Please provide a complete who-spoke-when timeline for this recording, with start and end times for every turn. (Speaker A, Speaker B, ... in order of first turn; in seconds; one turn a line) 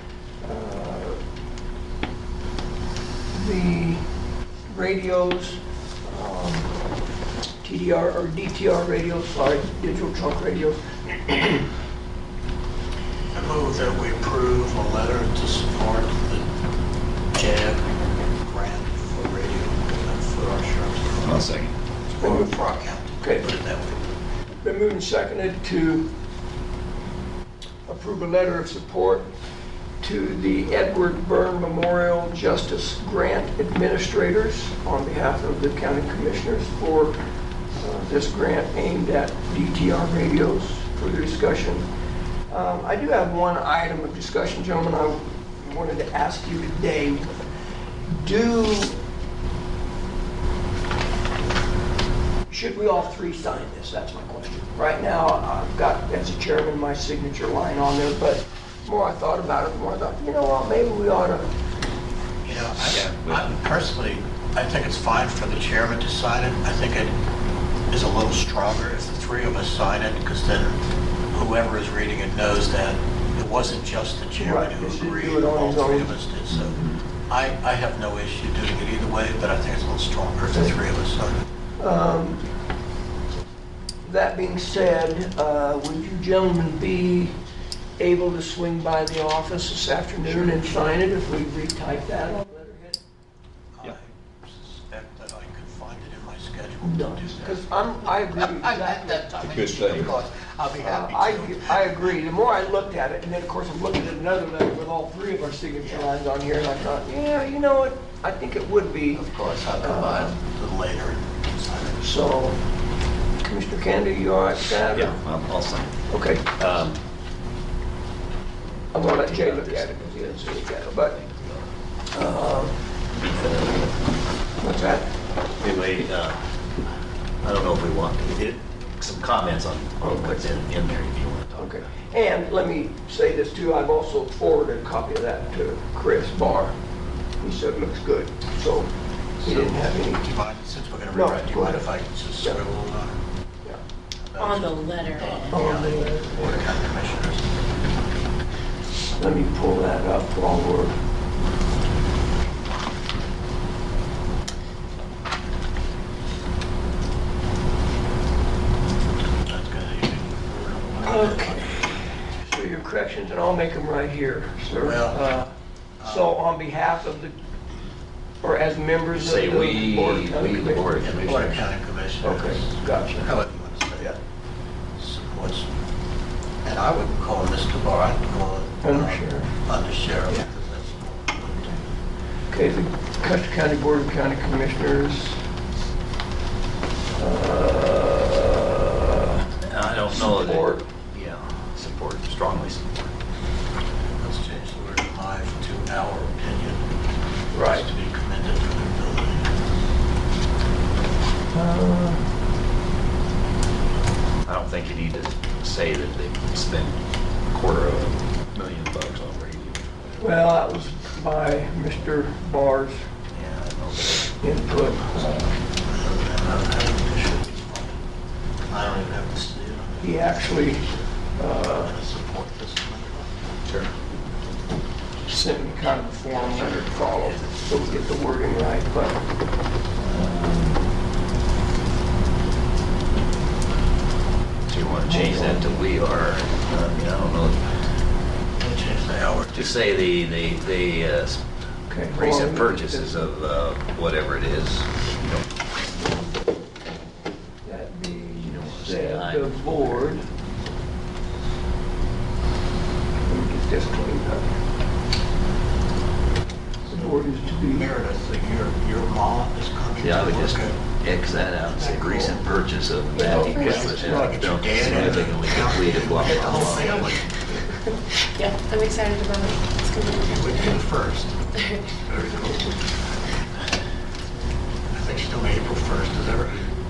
Speaker A: 0.4-1.2
Speaker A: 3.3-4.1
Speaker A: 4.7-6.7
Speaker A: 7.6-11.7
Speaker B: 13.3-16.5
Speaker B: 17.3-21.4
Speaker C: 21.2-21.7
Speaker B: 22.2-24.1
Speaker A: 22.2-22.5
Speaker A: 23.2-23.5
Speaker A: 24.6-26.1
Speaker A: 27.9-29.3
Speaker A: 30.0-37.2
Speaker A: 37.8-41.9
Speaker A: 42.5-47.4
Speaker A: 48.1-49.0
Speaker A: 52.5-61.5
Speaker B: 62.4-67.2
Speaker C: 62.8-63.6
Speaker B: 67.9-70.8
Speaker B: 71.3-81.4
Speaker A: 74.4-76.1
Speaker C: 76.5-77.0
Speaker A: 81.8-82.4
Speaker A: 84.0-87.3
Speaker A: 88.0-93.0
Speaker B: 90.3-90.6
Speaker B: 93.8-102.2
Speaker A: 96.8-99.4
Speaker C: 99.4-100.1
Speaker A: 100.8-110.4
Speaker B: 105.8-106.1
Speaker B: 109.1-112.0
Speaker A: 112.0-112.6
Speaker A: 113.4-115.2
Speaker C: 114.9-117.0
Speaker A: 116.1-116.5
Speaker A: 118.9-121.2
Speaker C: 119.0-121.7
Speaker A: 122.1-122.8
Speaker C: 123.2-123.9
Speaker A: 124.6-125.1
Speaker C: 125.6-126.7
Speaker C: 127.4-131.8
Speaker A: 130.0-130.6
Speaker A: 131.6-136.8
Speaker A: 137.4-140.2
Speaker B: 139.4-143.2
Speaker A: 141.1-142.6
Speaker B: 144.2-147.5
Speaker D: 144.4-145.9
Speaker A: 145.5-146.7
Speaker A: 149.2-151.0
Speaker B: 159.4-162.1
Speaker A: 161.0-167.3
Speaker B: 164.8-165.2
Speaker B: 166.0-166.3
Speaker A: 168.4-171.7
Speaker C: 169.1-171.5
Speaker B: 171.0-174.2
Speaker A: 172.2-173.3
Speaker B: 175.0-175.7
Speaker B: 176.6-181.8
Speaker A: 178.8-179.5
Speaker A: 182.5-185.4
Speaker A: 187.2-189.4
Speaker C: 189.6-193.2
Speaker A: 190.1-190.8
Speaker B: 194.2-196.8
Speaker A: 197.5-197.9
Speaker B: 197.6-199.5
Speaker A: 201.5-202.3
Speaker C: 204.4-210.4
Speaker A: 210.2-213.1
Speaker C: 213.3-215.2
Speaker A: 214.1-215.4
Speaker B: 215.8-218.0
Speaker B: 218.6-221.1
Speaker A: 220.0-221.9
Speaker B: 221.6-223.4
Speaker A: 225.3-229.2
Speaker C: 226.2-228.1
Speaker A: 230.0-230.8
Speaker C: 234.7-237.7
Speaker A: 235.1-235.7
Speaker B: 238.6-239.7
Speaker C: 239.5-241.4
Speaker A: 241.9-243.3
Speaker C: 242.1-245.6
Speaker A: 247.6-250.3
Speaker C: 248.3-250.2
Speaker A: 253.3-254.5
Speaker A: 256.9-257.9
Speaker B: 256.9-260.8
Speaker C: 260.0-267.2
Speaker B: 261.6-262.5
Speaker A: 263.1-265.3
Speaker B: 263.4-267.6
Speaker D: 268.3-270.7
Speaker B: 270.2-271.4
Speaker D: 271.5-272.0
Speaker B: 272.0-272.8
Speaker B: 274.9-276.7